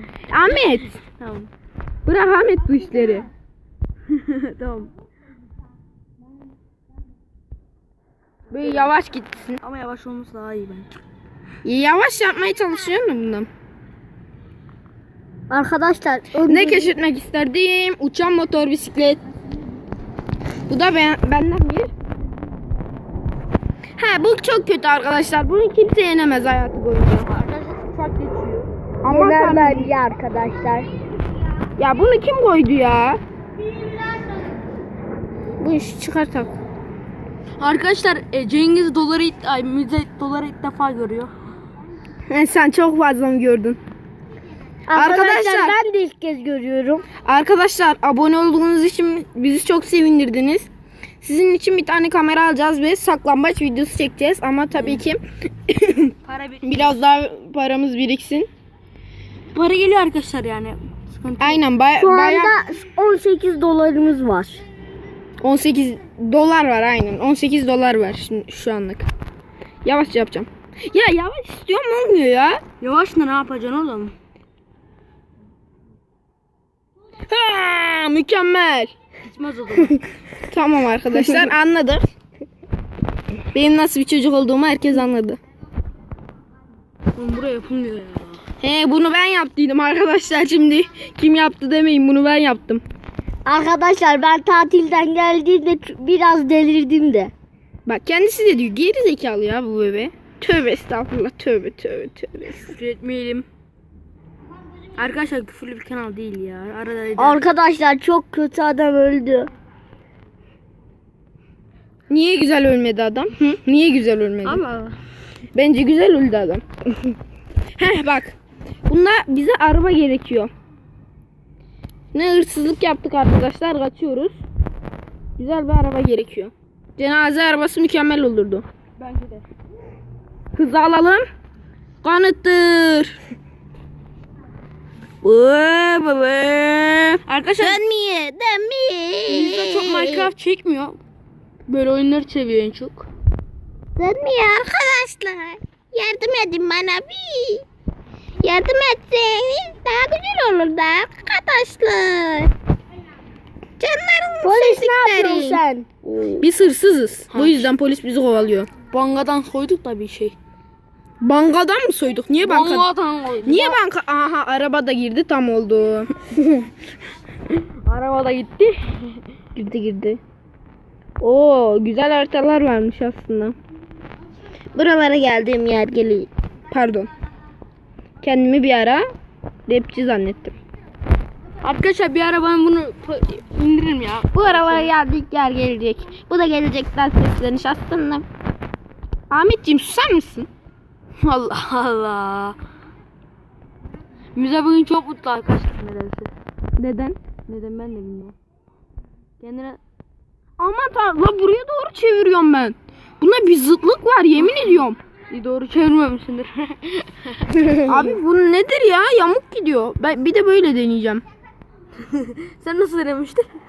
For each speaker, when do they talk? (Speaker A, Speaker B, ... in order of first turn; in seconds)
Speaker A: 0.3-0.9, 2.0-3.3, 8.5-9.6, 11.6-13.5, 16.4-19.2, 20.7-21.9, 24.0-27.3, 29.0-29.9, 31.8-33.2, 35.6-36.5, 42.3-43.8, 44.9-45.8, 47.2-50.7, 51.2-58.5, 61.4-62.5, 65.4-69.1, 69.8-72.6, 77.3-78.9, 80.5-82.0, 83.5-85.4, 88.6-92.8, 97.8-102.7, 112.1-114.6, 115.5-116.6, 117.8-120.5, 122.1-124.4, 125.4-128.7, 130.5-131.2, 132.0-133.2, 135.2-140.3, 144.0-147.6, 148.4-152.5, 153.8-155.6, 156.4-158.7, 161.2-162.9, 163.4-166.3, 169.5-170.2, 171.2-173.5, 174.7-177.1, 178.2-179.0, 179.7-180.5, 184.3-188.2, 189.3-190.5, 196.8-197.2, 200.6-205.0, 207.8-211.2
Speaker B: 0.5-1.5, 4.1-4.9, 9.6-10.9, 27.3-28.6, 37.6-41.3, 56.2-57.0, 59.5-61.6, 72.8-74.1, 79.3-80.0, 87.2-88.4, 102.6-103.5, 105.0-107.4, 114.4-114.9, 129.0-129.4, 137.3-137.8, 139.3-141.0, 141.7-143.1, 156.1-156.4, 157.3-157.7, 158.9-160.3, 162.4-163.8, 167.8-169.2, 181.6-184.9, 191.2-192.6, 194.3-196.3, 197.5-198.3, 199.4-199.8, 205.3-207.6, 212.1-213.4
Speaker C: 15.5-16.9, 29.1-30.9, 44.9-47.0, 62.0-64.6, 93.5-97.3, 107.2-109.5, 154.4-155.9